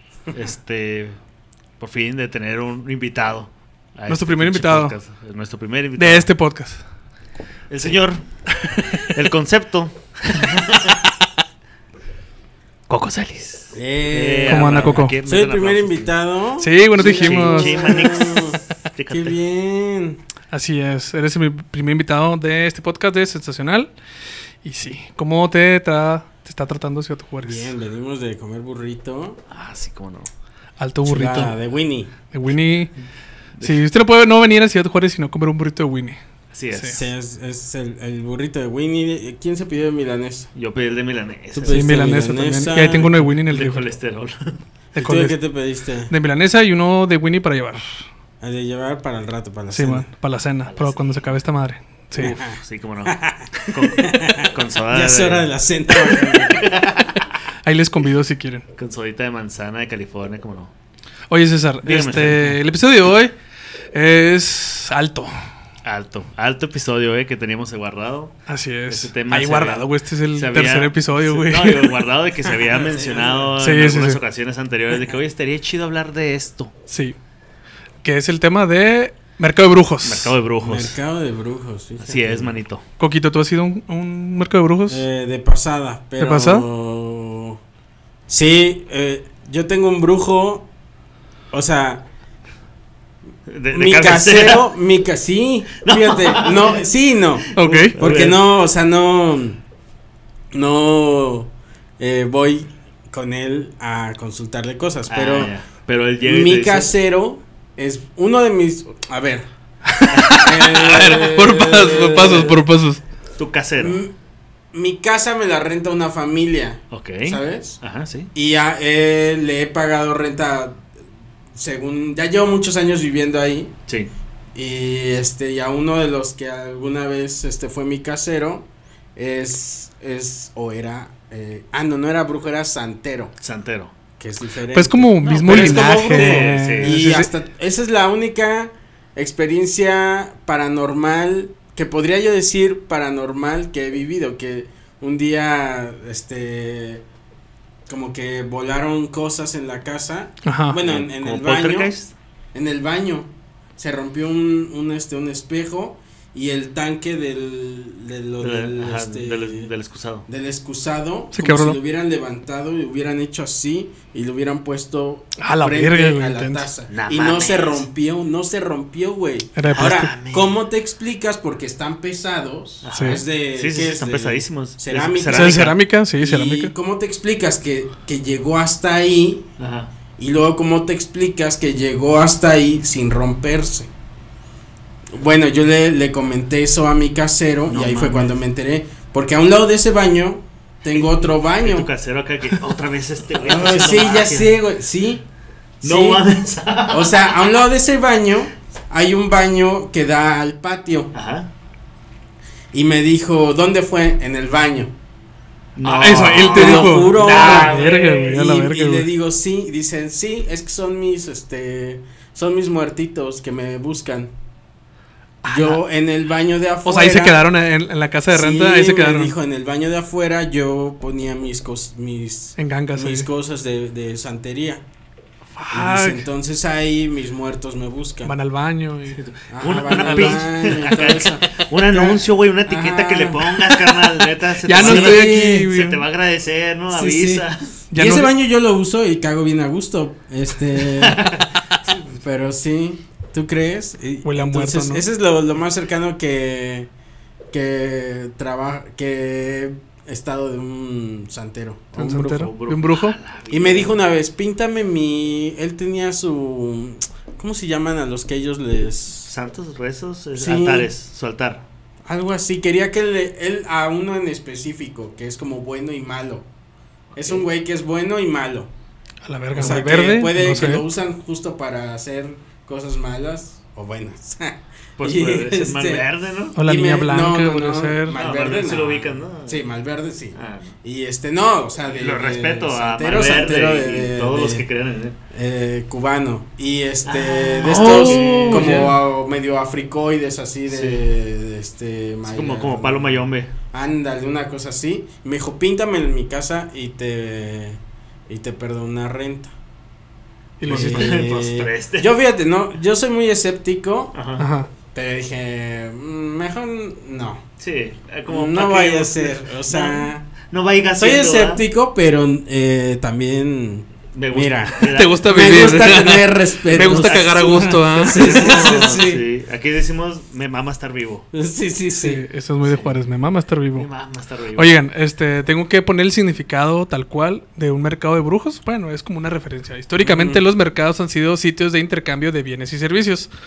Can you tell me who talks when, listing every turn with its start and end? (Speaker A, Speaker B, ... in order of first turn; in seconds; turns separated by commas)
Speaker A: 0.3-1.2, Speaker A: 1.8-6.3, Speaker B: 4.1-4.9, Speaker B: 6.0-6.8, Speaker A: 7.7-8.2, Speaker A: 9.0-11.1, Speaker A: 12.9-16.1, Speaker C: 13.7-20.2, Speaker B: 14.5-15.2, Speaker B: 16.6-18.1, Speaker A: 17.0-19.4, Speaker B: 20.5-23.9, Speaker B: 24.6-27.7, Speaker C: 27.4-29.4, Speaker A: 29.5-30.3, Speaker B: 30.8-31.6, Speaker C: 31.0-32.1, Speaker B: 32.3-32.9, Speaker B: 33.6-36.2, Speaker A: 36.5-37.0, Speaker B: 36.7-37.0, Speaker C: 36.9-40.5, Speaker A: 40.5-41.9, Speaker C: 41.5-43.1, Speaker B: 41.6-43.9, Speaker A: 43.4-44.6, Speaker B: 44.9-45.4, Speaker C: 45.0-46.1, Speaker B: 46.1-47.8, Speaker C: 48.4-50.1, Speaker B: 49.7-52.4, Speaker A: 50.6-51.3, Speaker A: 52.2-57.2, Speaker C: 52.2-56.7, Speaker B: 57.6-58.6, Speaker A: 58.8-60.7, Speaker B: 61.3-63.3, Speaker A: 61.8-62.6, Speaker B: 63.9-65.3, Speaker A: 65.8-68.4, Speaker B: 68.5-72.0, Speaker A: 68.9-76.7, Speaker C: 72.7-73.6, Speaker B: 73.6-74.2, Speaker B: 76.9-77.2, Speaker B: 78.0-80.3, Speaker A: 80.0-81.0, Speaker C: 80.6-82.6, Speaker A: 82.0-82.8, Speaker B: 83.0-85.0, Speaker C: 84.9-87.6, Speaker B: 86.2-86.7, Speaker C: 88.3-90.7, Speaker C: 91.5-92.0, Speaker A: 93.5-94.7, Speaker C: 93.7-99.6, Speaker A: 95.8-96.8, Speaker A: 97.4-98.4, Speaker B: 97.5-97.9, Speaker C: 100.5-105.5, Speaker A: 105.1-106.9, Speaker C: 106.2-109.5, Speaker B: 109.9-113.0, Speaker A: 110.1-111.4, Speaker C: 110.4-112.6, Speaker A: 111.9-112.5, Speaker A: 113.4-114.0, Speaker C: 113.8-114.1, Speaker C: 114.7-117.8, Speaker A: 116.9-118.3, Speaker C: 118.3-120.8, Speaker C: 121.5-123.7, Speaker C: 124.5-133.3, Speaker A: 133.4-133.9, Speaker C: 134.2-147.0, Speaker B: 134.7-137.3, Speaker A: 135.2-137.0, Speaker C: 147.9-151.9, Speaker B: 150.4-150.8, Speaker A: 150.8-152.1, Speaker C: 152.5-159.7, Speaker A: 158.4-160.3, Speaker C: 160.3-179.5, Speaker B: 161.3-161.8, Speaker B: 165.4-166.7, Speaker A: 166.9-167.8, Speaker B: 169.6-170.1, Speaker A: 169.7-170.5, Speaker A: 172.8-175.8, Speaker B: 172.9-173.2, Speaker B: 175.3-176.7, Speaker A: 179.6-179.9, Speaker C: 180.2-183.9, Speaker C: 185.1-191.9, Speaker A: 187.7-188.4, Speaker A: 190.9-194.6, Speaker C: 193.4-195.2, Speaker C: 195.8-196.2, Speaker A: 195.8-197.5, Speaker C: 196.9-201.1, Speaker A: 201.1-201.5, Speaker C: 202.7-204.9, Speaker A: 205.8-208.3, Speaker B: 205.9-209.1, Speaker C: 206.0-214.3, Speaker B: 215.4-215.8, Speaker C: 215.5-217.4, Speaker B: 216.8-219.3, Speaker C: 218.3-224.8, Speaker B: 222.6-223.3, Speaker B: 225.6-226.2, Speaker C: 225.7-228.3, Speaker B: 228.2-229.2, Speaker A: 229.1-237.7, Speaker C: 229.5-234.0, Speaker B: 229.8-230.9, Speaker B: 234.6-236.0, Speaker C: 234.7-235.7, Speaker C: 236.9-246.9, Speaker B: 237.9-238.3, Speaker A: 241.0-241.5, Speaker B: 244.2-245.0, Speaker C: 247.5-252.5, Speaker B: 251.9-253.2, Speaker A: 252.3-254.0, Speaker C: 253.5-259.3, Speaker A: 259.2-261.6, Speaker C: 260.4-260.9, Speaker C: 262.1-266.5, Speaker A: 267.1-267.4, Speaker C: 267.1-268.7, Speaker B: 269.2-270.8, Speaker C: 269.5-284.6, Speaker A: 275.0-276.6, Speaker B: 276.5-278.2, Speaker A: 278.1-279.6, Speaker A: 280.3-280.7, Speaker A: 281.9-285.2, Speaker C: 285.3-299.5, Speaker A: 287.1-288.9, Speaker B: 287.6-288.9, Speaker A: 290.7-291.0, Speaker A: 292.2-293.5, Speaker B: 300.6-301.2, Speaker A: 300.6-302.1, Speaker C: 300.6-304.1, Speaker A: 304.1-304.4, Speaker B: 304.4-304.7, Speaker C: 304.9-307.4, Speaker A: 307.6-311.6, Speaker C: 308.3-310.2, Speaker C: 311.0-319.2, Speaker A: 314.1-316.1, Speaker B: 314.9-318.5, Speaker A: 316.7-321.3, Speaker C: 321.3-322.2, Speaker B: 322.0-323.9, Speaker A: 322.6-322.9, Speaker A: 323.7-324.7, Speaker B: 324.6-333.3, Speaker C: 330.0-330.4